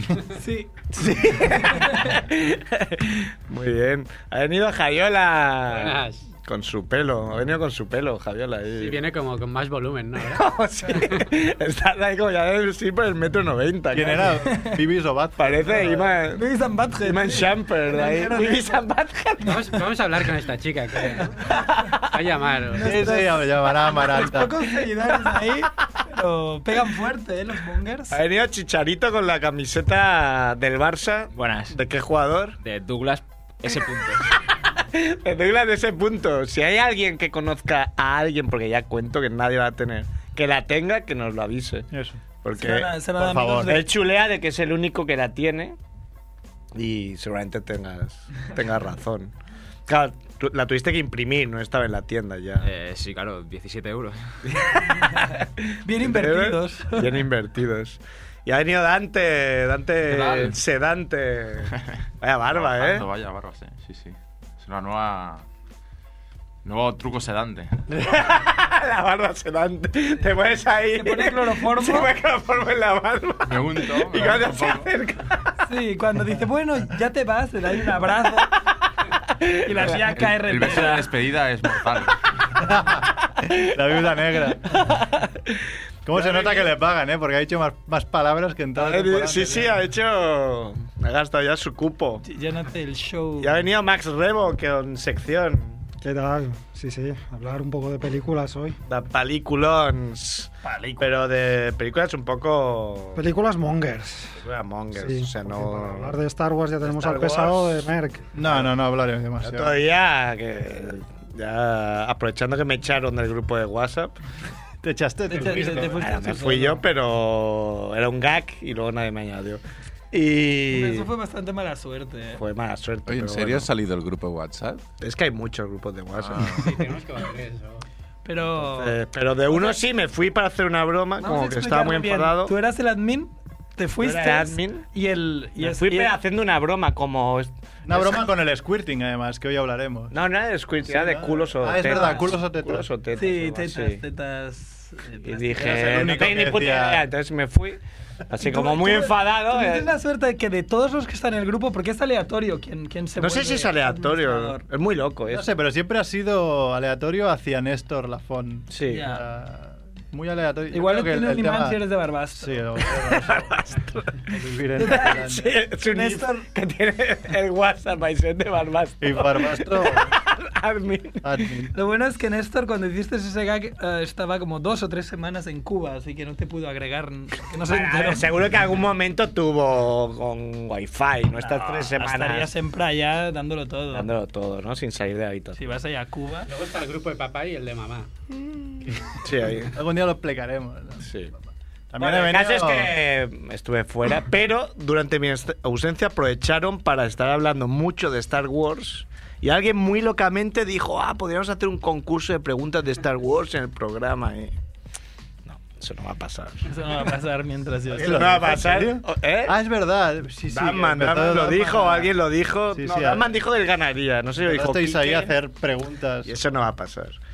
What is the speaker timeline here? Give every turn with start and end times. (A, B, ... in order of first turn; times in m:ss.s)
0:00.3-0:02.1 A
0:00.9-0:09.0 B
0:05.7-0:06.2 C
0:08.8-0:10.4 C
0:10.2-0:14.4 B
0:13.9-0:16.1 D
0:14.4-0:14.8 A
0:15.4-0:16.4 B
0:16.3-0:18.8 A
0:17.0-0:19.8 B
0:19.4-0:21.4 C
0:21.4-0:22.1 B
0:22.1-0:22.9 C
0:22.7-0:28.2 A
0:22.8-0:24.5 D
0:28.1-0:32.6 B
0:31.3-0:31.7 E
0:32.6-0:34.3 E
0:34.8-0:41.9 B
0:41.9-0:42.2 D
0:42.4-0:43.0 B
0:42.5-0:43.8 A
0:43.2-0:43.8 D
0:43.6-0:45.8 B
0:46.7-0:49.3 B
0:49.9-0:52.7 B
0:52.6-0:54.4 E
0:54.5-1:03.1 B
0:55.8-0:57.0 A
1:00.0-1:00.6 F
1:02.5-1:05.4 F
1:06.6-1:07.8 F
1:07.9-1:15.5 B
1:10.9-1:12.1 A
1:13.4-1:14.9 F
1:15.6-1:18.6 A
1:19.4-1:19.9 B
1:19.6-1:21.1 A
1:19.9-1:22.2 F
1:20.7-1:21.0 B
1:22.6-1:25.0 D
1:23.4-1:23.7 B
1:24.9-1:25.2 B
1:26.0-1:29.8 D
1:26.2-1:26.6 B
1:28.7-1:32.2 B
1:32.2-1:33.6 A
1:33.4-1:35.9 B
1:36.0-1:38.8 G
1:38.8-1:43.2 B
1:40.6-1:41.1 A
1:43.1-1:44.4 G
1:44.4-1:46.2 B
1:44.9-1:48.3 G
1:46.8-1:47.9 B
1:48.3-1:49.8 D
1:49.4-1:54.2 B
1:54.8-1:56.2 D
1:55.3-1:56.8 A
1:55.7-2:01.1 B
2:00.7-2:02.4 A
2:02.3-2:03.7 B
2:03.1-2:04.8 H
2:05.0-2:06.6 B
2:06.2-2:06.7 H
2:06.6-2:07.8 C
2:08.2-2:09.0 A
2:08.6-2:12.5 B
2:09.5-2:09.8 A
2:11.2-2:16.1 A
2:14.0-2:14.8 B
2:15.6-2:18.2 B
2:17.8-2:20.1 D
2:20.1-2:24.0 B
2:20.8-2:22.9 D
2:21.8-2:22.3 A
2:23.2-2:26.4 A
2:25.2-2:29.9 B
2:25.6-2:27.1 D
2:28.4-2:34.6 A
2:33.2-2:35.5 B
2:35.3-2:41.8 D
2:38.7-2:39.0 B
2:38.9-2:39.2 A
2:40.7-2:42.9 A
2:42.4-2:43.5 D
2:43.0-2:44.2 B
2:44.3-2:45.5 D
2:44.8-2:45.3 A
2:44.8-2:51.4 B
2:45.8-2:46.4 A
2:49.0-2:50.1 D
2:51.2-2:51.7 D
2:51.7-2:58.3 A
2:57.7-3:02.5 B
3:01.4-3:04.1 A
3:03.9-3:05.6 B
3:05.5-3:06.5 A
3:06.5-3:08.1 C
3:09.2-3:09.7 B
3:09.7-3:11.0 D
3:11.0-3:11.3 B
3:11.9-3:12.9 D
3:12.0-3:24.5 B
3:25.5-3:26.7 B
3:26.7-3:28.6 A
3:27.9-3:32.2 D
3:28.0-3:29.6 B
3:30.5-3:35.3 B
3:32.7-3:33.3 D
3:34.4-3:36.3 D
3:36.2-3:37.2 B